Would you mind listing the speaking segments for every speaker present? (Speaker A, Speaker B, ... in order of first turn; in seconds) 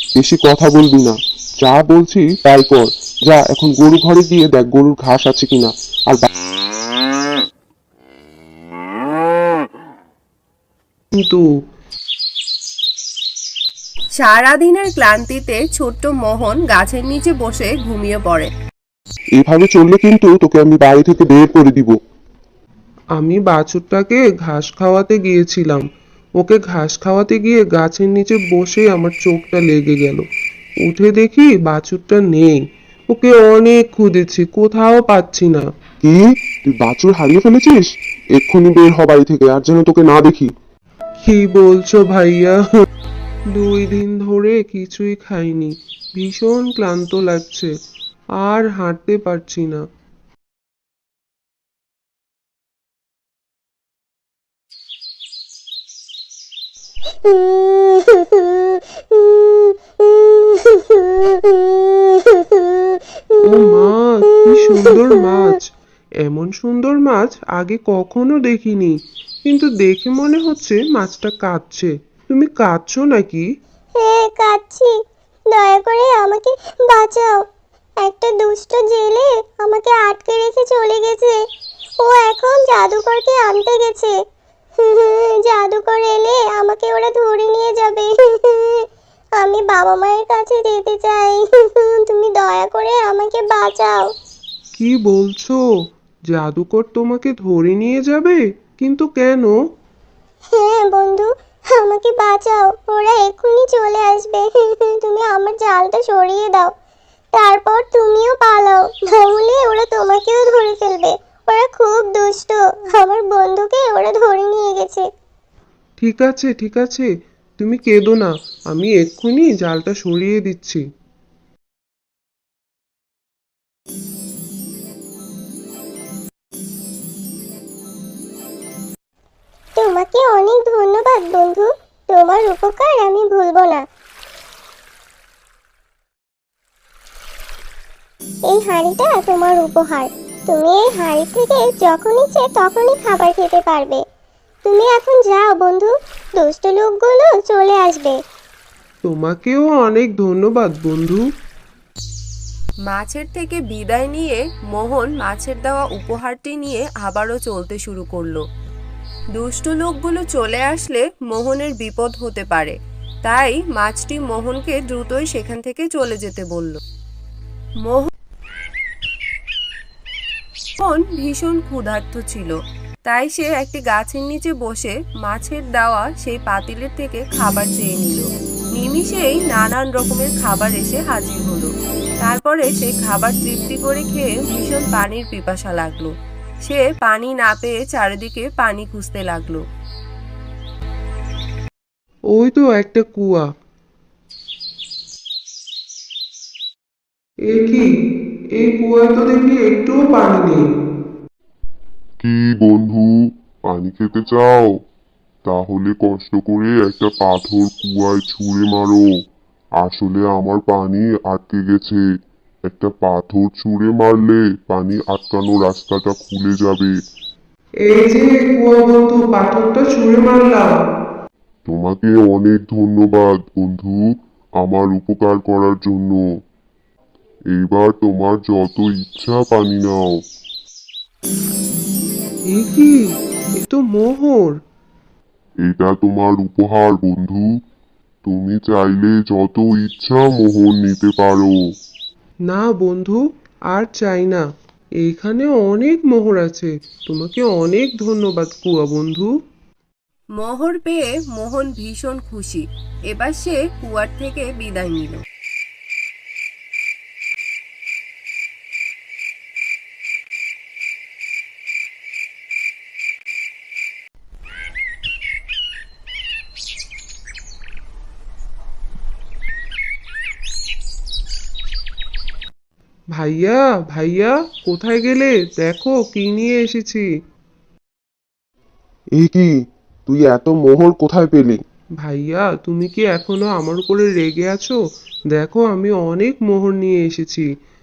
Speaker A: 0.1-6.2, 19.4-21.9, 36.0-40.5, 279.1-279.5, 280.1-281.6
Speaker B: 11.1-11.5, 23.1-30.3, 30.8-32.6, 33.1-35.7, 41.2-42.6, 43.5-47.7, 48.4-49.8, 63.4-65.7, 66.2-73.5, 94.7-95.6, 96.3-99.5, 116.0-120.8, 149.0-151.2, 192.3-193.5, 197.5-197.9, 198.5-200.6, 217.8-220.8, 232.5-233.0, 233.6-234.6, 242.5-244.4, 245.0-249.3, 273.1-277.1, 282.0-284.8, 285.3-287.5
Speaker C: 14.2-18.5, 152.9-158.4, 159.3-166.8, 167.8-168.1, 170.8-172.5, 173.1-186.1, 186.6-189.6, 250.4-255.2
Speaker D: 57.2-63.0, 74.0-74.9, 75.5-77.4, 78.0-81.4, 82.0-84.2, 84.8-94.1, 100.5-106.7, 107.3-115.1, 129.8-133.8, 138.5-144.0, 144.6-148.2
Speaker E: 202.2-204.7, 205.4-209.1, 209.8-212.0, 212.7-216.9, 221.7-224.1, 224.6-226.2, 227.5-230.2, 235.6-237.5, 238.2-241.5